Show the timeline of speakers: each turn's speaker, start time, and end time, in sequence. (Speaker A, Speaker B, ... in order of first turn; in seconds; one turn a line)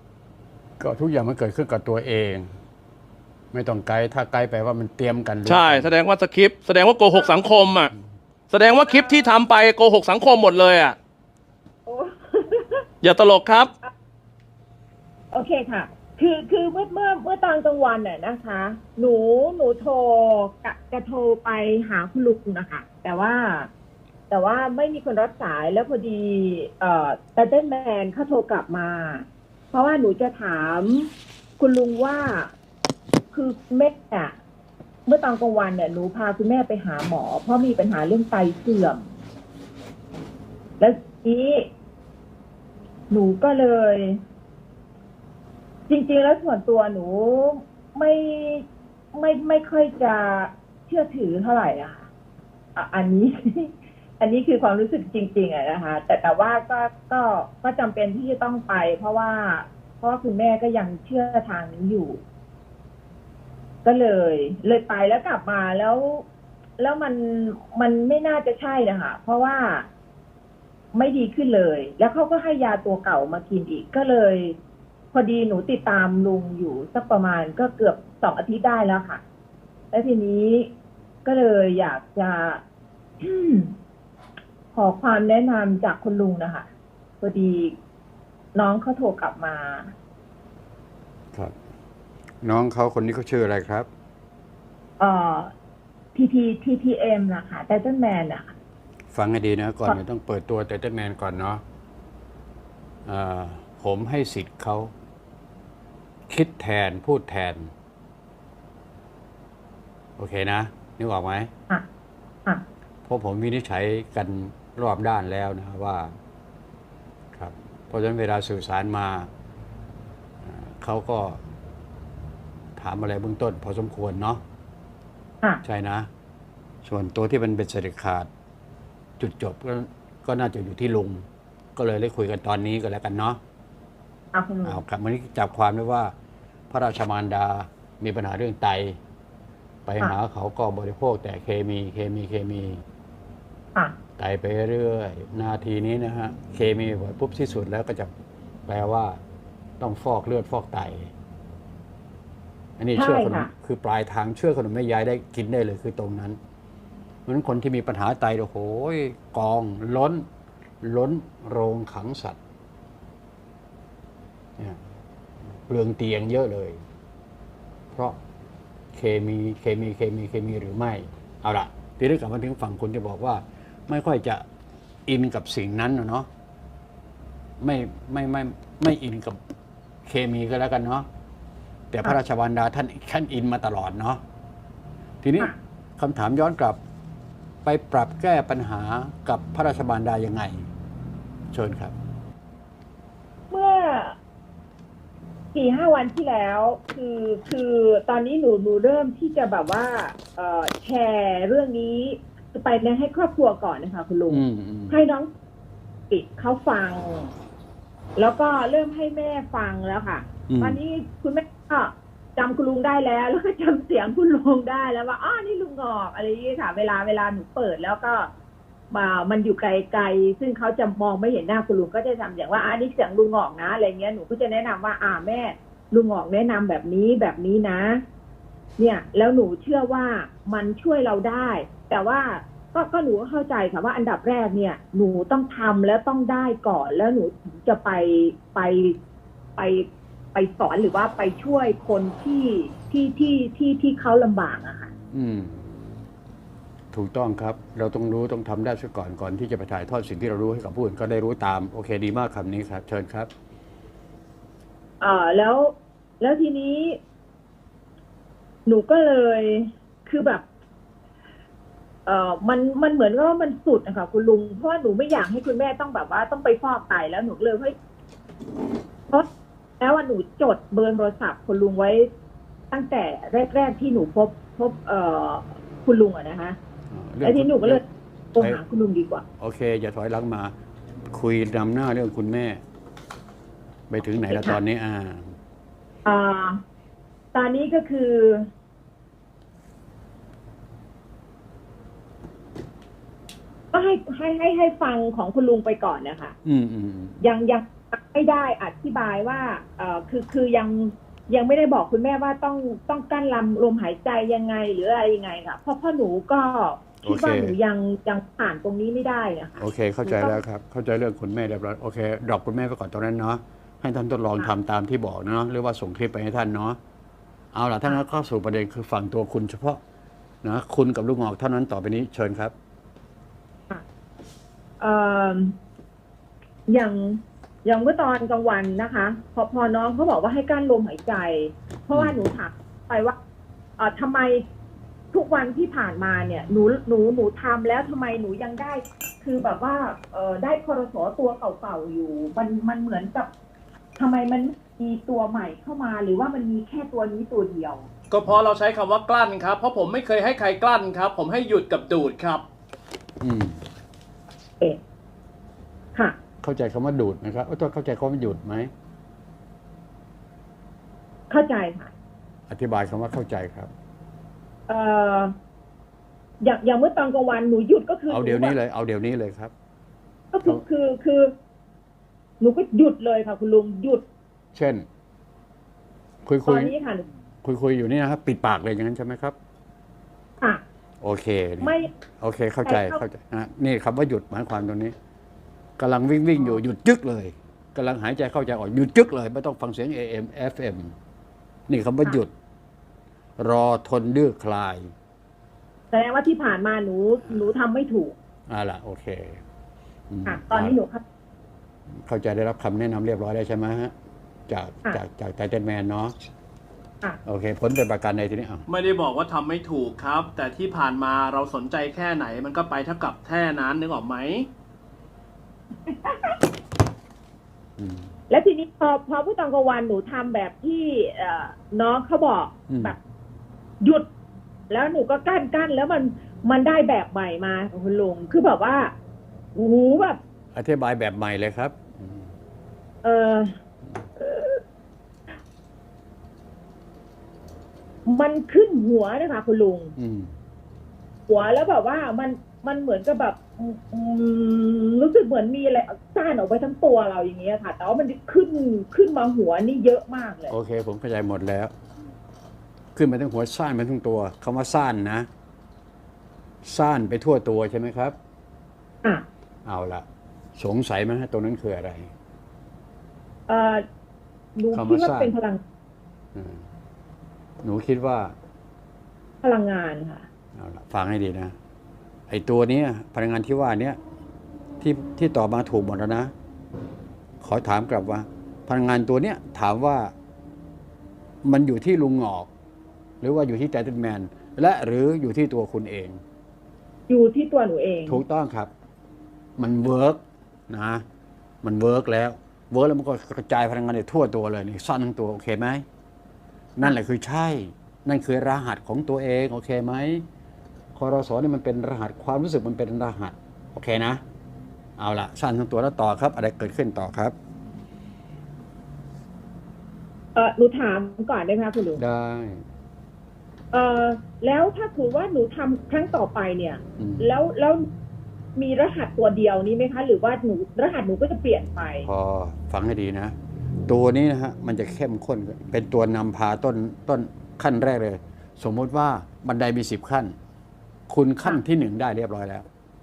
Speaker A: 0.8-2.5
Speaker A: 3.5-5.9
Speaker B: 5.4-7.9
Speaker C: 7.1-7.4
Speaker B: 8.5-11.0
Speaker C: 8.8-9.3
Speaker C: 11.8-12.8
Speaker B: 13.0-13.7
Speaker C: 15.3-23.7
Speaker C: 24.3-32.5
Speaker C: 33.3-34.4
Speaker C: 35.0-39.1
Speaker C: 40.8-41.7
Speaker C: 43.1-44.2
Speaker C: 45.9-52.1
Speaker C: 52.8-62.2
Speaker C: 63.8-66.2
Speaker C: 66.8-69.9
Speaker C: 70.9-74.6
Speaker C: 75.1-79.2
Speaker C: 79.9-80.7
Speaker C: 81.2-82.6
Speaker C: 83.2-83.7
Speaker C: 84.7-86.7
Speaker C: 87.2-87.7
Speaker C: 88.5-89.9
Speaker A: 92.4-93.9
Speaker C: 95.0-95.5
Speaker C: 96.1-98.5
Speaker A: 99.1-101.6
Speaker A: 103.0-104.9
Speaker A: 106.3-107.7
Speaker A: 110.2-111.5
Speaker A: 113.0-116.1
Speaker A: 117.3-119.3
Speaker A: 120.4-121.4
Speaker A: 122.8-124.4
Speaker A: 125.6-126.1
Speaker A: 126.8-128.3
Speaker A: 129.2-131.2
Speaker A: 131.8-133.4
Speaker C: 134.3-134.8
Speaker A: 134.6-136.1
Speaker A: 136.7-139.0
Speaker A: 139.8-142.8
Speaker A: 144.2-148.1
Speaker A: 148.7-149.2
Speaker A: 149.8-151.1
Speaker A: 152.8-156.4
Speaker C: 152.9-153.5
Speaker A: 157.2-160.2
Speaker A: 160.8-162.4
Speaker A: 164.6-164.9
Speaker A: 165.7-166.8
Speaker A: 167.9-168.2
Speaker A: 168.9-174.4
Speaker A: 175.1-176.3
Speaker A: 177.6-179.4
Speaker A: 180.1-181.1
Speaker A: 181.9-184.2
Speaker A: 185.2-186.8
Speaker A: 187.6-190.7
Speaker A: 191.5-191.9
Speaker C: 193.5-194.2
Speaker C: 195.5-205.3
Speaker A: 204.3-205.0
Speaker C: 206.1-207.3
Speaker C: 208.2-218.3
Speaker A: 210.5-210.8
Speaker C: 218.9-228.0
Speaker C: 228.8-238.9
Speaker C: 239.6-244.9
Speaker A: 245.1-245.6
Speaker A: 246.9-253.3
Speaker C: 255.0-257.0
Speaker C: 258.6-260.4
Speaker C: 262.1-267.7
Speaker C: 269.8-272.1
Speaker C: 272.7-276.6
Speaker A: 276.9-277.8
Speaker C: 277.2-277.8
Speaker C: 278.3-279.2
Speaker A: 279.4-280.5
Speaker A: 281.1-282.6
Speaker A: 283.9-285.3
Speaker C: 284.2-284.6
Speaker C: 286.0-286.6
Speaker C: 287.3-288.5
Speaker C: 293.7-296.4
Speaker A: 296.4-297.2
Speaker C: 297.2-310.4
Speaker A: 307.0-307.5
Speaker A: 309.6-316.8
Speaker A: 317.5-319.8
Speaker A: 320.4-322.5
Speaker C: 324.8-325.6
Speaker C: 326.7-333.1
Speaker C: 333.8-334.4
Speaker C: 335.1-343.3
Speaker C: 344.0-347.9
Speaker B: 348.1-352.4
Speaker A: 353.2-353.6
Speaker A: 356.4-358.7
Speaker C: 361.3-361.9
Speaker A: 362.5-363.7
Speaker C: 364.7-365.3
Speaker C: 366.4-368.6
Speaker A: 368.1-369.5
Speaker C: 370.3-371.3
Speaker C: 372.4-374.0
Speaker A: 374.5-374.8
Speaker A: 376.2-376.7
Speaker C: 376.4-377.0
Speaker A: 377.4-379.3
Speaker A: 381.0-384.9
Speaker C: 381.6-381.9
Speaker C: 382.6-383.0
Speaker A: 385.8-390.9
Speaker C: 386.4-386.6
Speaker A: 391.7-392.3
Speaker A: 393.4-394.9
Speaker C: 395.9-398.1
Speaker A: 398.5-399.4
Speaker A: 400.1-400.8
Speaker C: 400.2-401.0
Speaker A: 402.0-403.9
Speaker A: 404.5-406.1
Speaker A: 407.2-408.6
Speaker B: 408.7-414.5
Speaker C: 415.9-416.4
Speaker A: 417.8-418.1
Speaker C: 418.3-423.0
Speaker A: 422.7-422.9
Speaker C: 424.7-428.9
Speaker C: 429.5-430.2
Speaker A: 430.5-432.3
Speaker C: 433.0-433.5
Speaker C: 434.2-434.6
Speaker C: 438.1-439.9
Speaker A: 440.0-440.3
Speaker C: 441.3-450.5
Speaker A: 450.5-451.7
Speaker A: 452.9-455.3
Speaker A: 456.6-458.1
Speaker A: 459.6-460.1
Speaker A: 460.6-462.1
Speaker C: 463.5-463.8
Speaker C: 464.6-465.6
Speaker A: 464.7-465.3
Speaker A: 466.3-466.6
Speaker A: 467.6-468.3
Speaker C: 469.4-470.3
Speaker A: 470.6-471.5
Speaker A: 472.3-474.0
Speaker A: 474.8-476.3
Speaker A: 477.4-480.1
Speaker A: 481.4-482.5
Speaker A: 483.2-486.2
Speaker C: 487.1-488.2
Speaker A: 488.1-488.7
Speaker A: 489.6-491.0
Speaker A: 491.6-495.8
Speaker A: 496.8-500.2
Speaker A: 500.9-504.2
Speaker A: 505.0-507.3
Speaker C: 510.3-512.0
Speaker A: 511.9-512.6
Speaker C: 513.7-517.9
Speaker A: 517.0-517.3
Speaker C: 518.5-522.1
Speaker A: 522.0-523.3
Speaker A: 523.9-530.3
Speaker A: 531.1-532.6